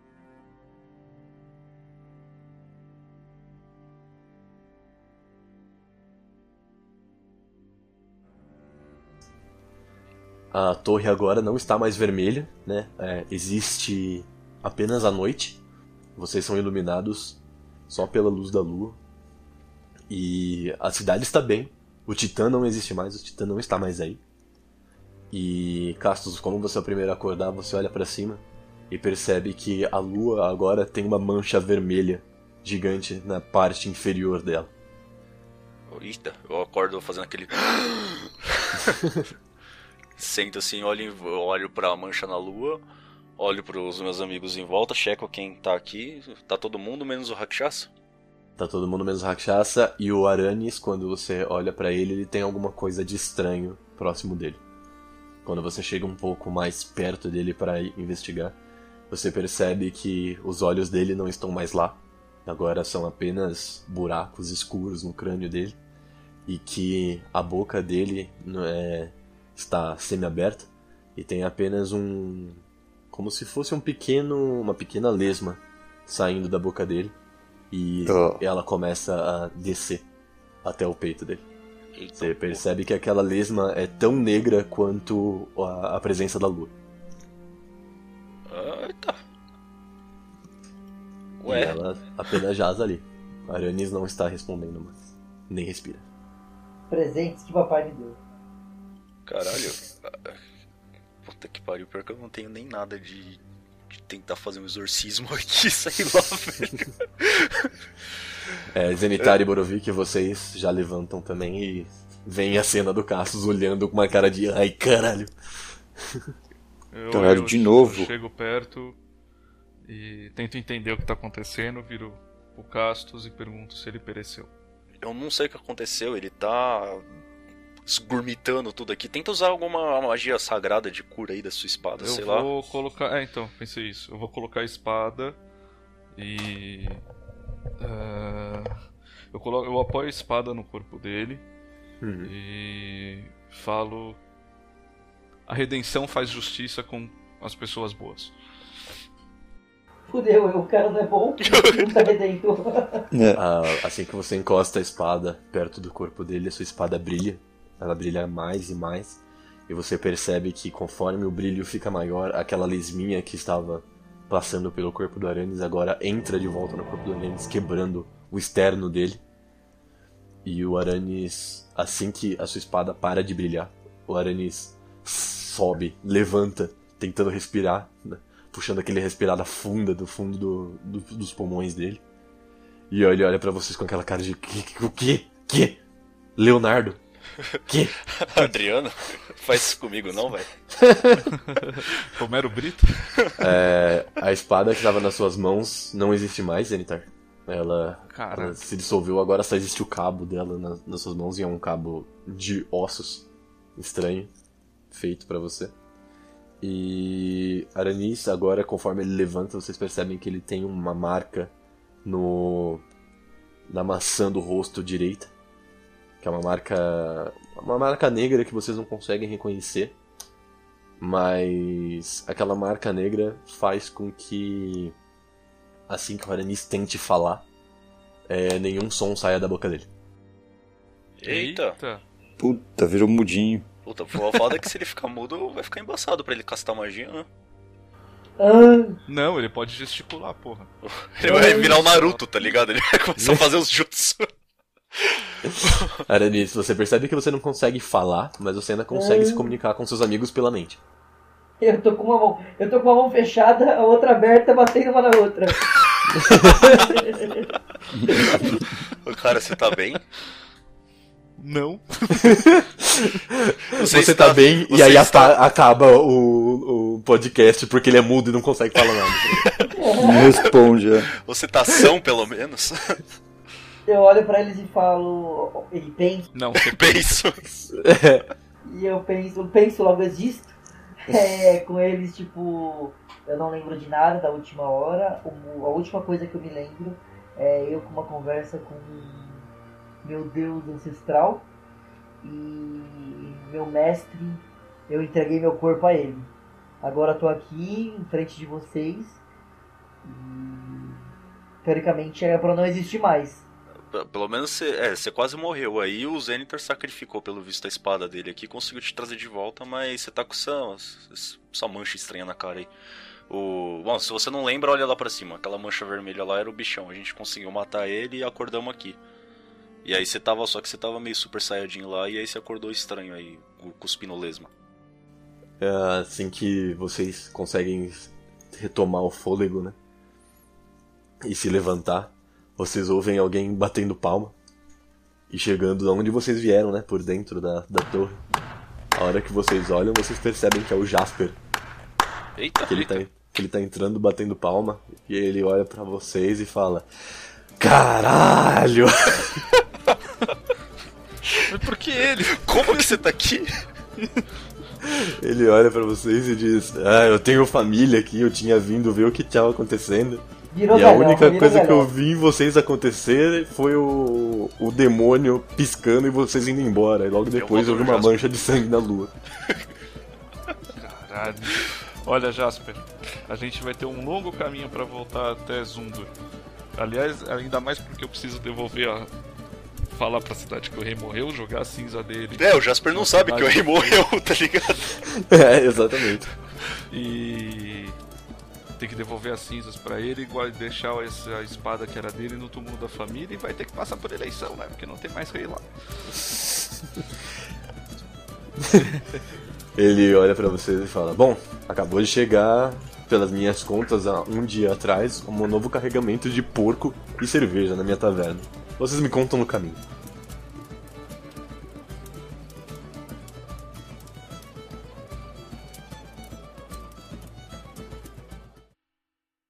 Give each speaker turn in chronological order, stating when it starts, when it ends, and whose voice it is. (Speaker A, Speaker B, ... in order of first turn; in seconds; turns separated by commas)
Speaker A: 10.5-15.6, Speaker A: 16.2-19.0, Speaker A: 20.1-24.2, Speaker A: 25.3-34.7, Speaker B: 35.9-39.0, Speaker B: 40.2-42.8, Speaker B: 43.4-47.9, Speaker A: 48.6-54.6, Speaker A: 55.4-58.6, Speaker A: 59.1-65.8, Speaker A: 66.5-77.2, Speaker A: 77.7-80.0, Speaker C: 78.1-78.4, Speaker A: 80.6-81.5, Speaker B: 82.0-82.6, Speaker A: 82.2-86.7, Speaker B: 88.5-89.2, Speaker B: 91.4-91.8, Speaker A: 91.5-96.0, Speaker D: 96.9-98.2, Speaker B: 99.3-100.4, Speaker B: 101.2-107.7, Speaker A: 108.7-115.3, Speaker E: 116.9-119.0, Speaker C: 117.1-118.1, Speaker E: 119.9-124.5, Speaker B: 125.0-127.1, Speaker B: 127.9-132.5, Speaker E: 132.0-135.4, Speaker E: 136.2-137.0, Speaker E: 137.8-138.8, Speaker E: 139.3-141.4, Speaker A: 142.0-142.3, Speaker E: 142.2-144.2, Speaker E: 145.5-148.3, Speaker D: 150.1-153.1, Speaker B: 151.4-151.9, Speaker C: 153.1-153.4, Speaker A: 153.3-169.2, Speaker A: 170.4-182.0, Speaker A: 182.9-185.8, Speaker A: 186.4-187.0, Speaker A: 187.7-188.0, Speaker B: 188.2-190.5, Speaker A: 190.7-191.3, Speaker E: 191.4-193.1, Speaker A: 193.4-204.3, Speaker E: 198.1-198.6, Speaker A: 204.9-205.7, Speaker A: 206.6-211.5, Speaker A: 212.0-212.8, Speaker A: 213.7-215.3, Speaker A: 216.2-220.0, Speaker A: 221.0-224.9, Speaker A: 225.9-227.5, Speaker A: 228.3-229.9, Speaker B: 231.2-231.8, Speaker E: 231.3-232.0, Speaker C: 232.4-233.7, Speaker B: 233.8-237.3, Speaker D: 238.4-239.0, Speaker E: 239.1-240.7, Speaker B: 240.8-244.3, Speaker D: 241.2-241.8, Speaker E: 241.7-242.2, Speaker A: 243.2-243.5, Speaker B: 244.9-246.0, Speaker A: 245.4-250.8, Speaker D: 248.9-249.5, Speaker D: 251.6-255.7, Speaker A: 256.2-256.9, Speaker D: 256.2-257.5, Speaker D: 258.1-258.5, Speaker B: 258.3-260.0, Speaker E: 261.4-262.5, Speaker A: 262.2-269.5, Speaker B: 263.7-265.4, Speaker B: 269.4-269.7, Speaker D: 269.8-270.3, Speaker C: 270.0-271.1, Speaker B: 271.1-273.0, Speaker D: 273.9-276.3, Speaker E: 276.3-277.2, Speaker B: 276.6-277.4, Speaker A: 277.5-278.3, Speaker D: 278.6-289.5, Speaker D: 290.0-291.5, Speaker D: 292.2-296.3, Speaker D: 296.8-299.2, Speaker D: 300.0-301.0, Speaker D: 301.6-303.4, Speaker B: 303.9-312.7, Speaker B: 313.3-319.0, Speaker B: 319.8-324.5, Speaker A: 325.6-329.8, Speaker A: 331.2-334.3, Speaker A: 335.3-338.2, Speaker A: 338.9-341.4, Speaker B: 342.4-343.0, Speaker A: 342.6-346.9, Speaker A: 347.6-349.4, Speaker E: 351.4-353.0, Speaker B: 352.3-353.5, Speaker A: 354.8-369.1, Speaker D: 360.5-361.9, Speaker B: 367.3-368.2, Speaker E: 370.7-376.1, Speaker E: 376.8-379.1, Speaker E: 379.9-383.6, Speaker B: 382.4-385.0, Speaker A: 385.1-386.3, Speaker E: 386.9-388.0, Speaker E: 388.8-395.6, Speaker A: 398.6-398.9, Speaker A: 399.8-409.8